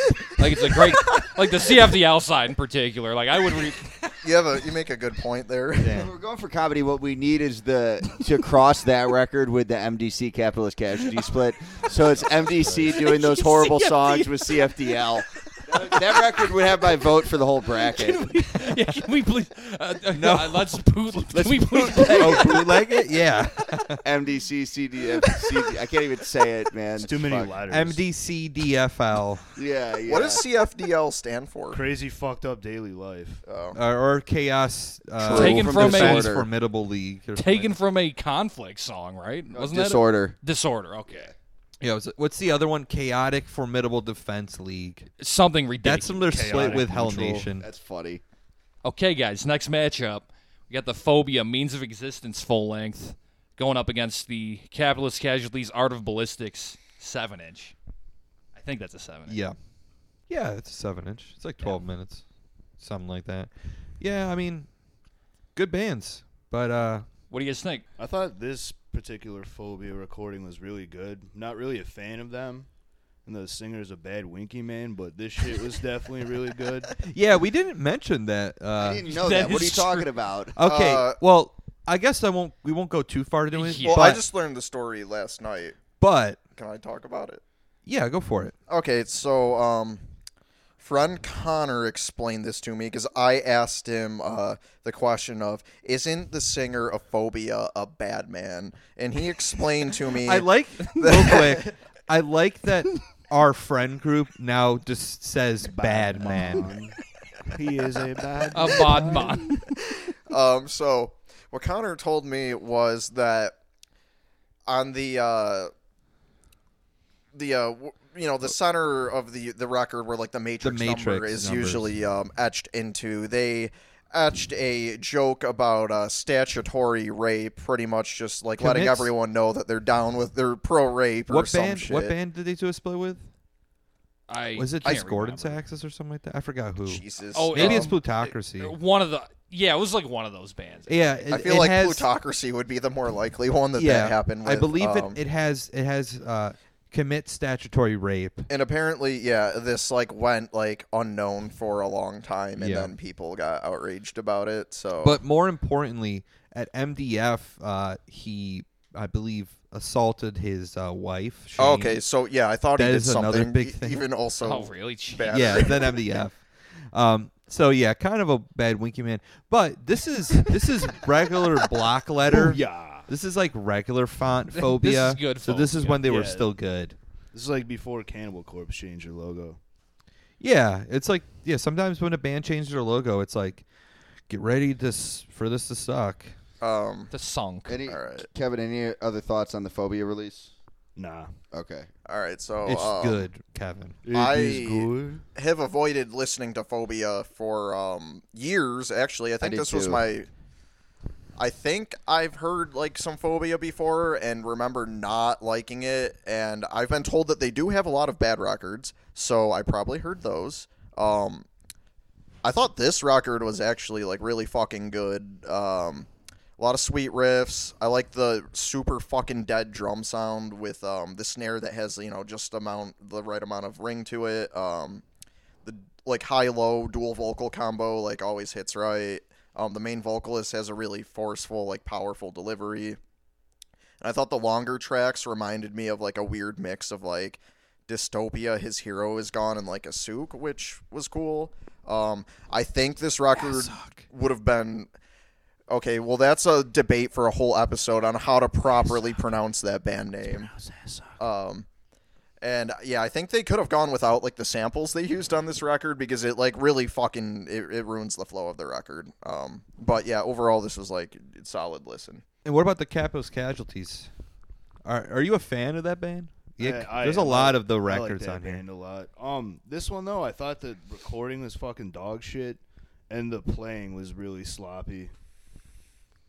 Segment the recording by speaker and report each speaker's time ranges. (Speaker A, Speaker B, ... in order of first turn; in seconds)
Speaker A: 0.2-4.1, 12.3-16.6, 17.7-22.9, 35.2-36.4, 37.4-41.3, 45.2-46.8, 48.8-57.7, 58.5-59.4, 67.3-67.9, 79.1-80.1, 83.5-84.2, 108.5-109.7, 134.3-135.6, 137.3-141.2, 164.4-165.7, 174.5-176.0, 187.1-187.8
Speaker B: 0.4-1.3, 4.2-6.1, 30.1-31.8, 33.5-33.8, 80.6-81.2, 83.8-85.8, 86.6-87.4, 88.7-90.1, 90.8-101.7, 109.6-113.6, 114.7-115.7, 117.3-132.2, 136.8-137.9, 141.3-145.2, 148.5-155.2, 161.6-166.0, 186.6-187.1, 187.9-188.3, 192.1-193.2, 194.1-200.3, 201.4-211.5, 212.4-225.0, 225.7-233.0, 234.0-244.9, 245.7-250.5, 251.2-251.7, 252.4-262.2
Speaker C: 5.9-18.5, 21.3-22.6, 24.0-27.6, 29.6-30.4, 35.2-36.5, 39.5-40.4, 47.6-48.2, 78.8-80.6, 187.7-190.5, 191.5-191.9, 199.4-200.0
Speaker D: 20.1-20.8, 21.9-24.0, 27.7-29.4, 33.7-37.8, 41.8-45.1, 45.8-47.7, 59.3-59.6, 60.3-62.2, 62.8-64.7, 65.5-67.1, 77.0-79.6, 80.5-84.2, 86.0-86.4, 87.9-88.5, 100.2-106.8, 120.6-121.9, 128.6-129.1, 131.3-133.3, 134.6-138.8, 140.9-142.1, 143.8-148.5, 152.6-152.9, 155.0-162.0, 162.8-164.0, 165.3-177.0, 180.4-183.7, 184.3-186.3, 192.7-194.0, 243.5-244.0, 262.4-264.1, 264.8-268.6
Speaker E: 27.0-28.0, 31.7-33.4, 46.3-47.5, 68.0-72.7, 73.2-77.0, 105.6-109.3, 172.2-173.1, 176.0-176.5, 177.3-179.6, 191.0-191.3, 194.0-195.2, 266.6-275.1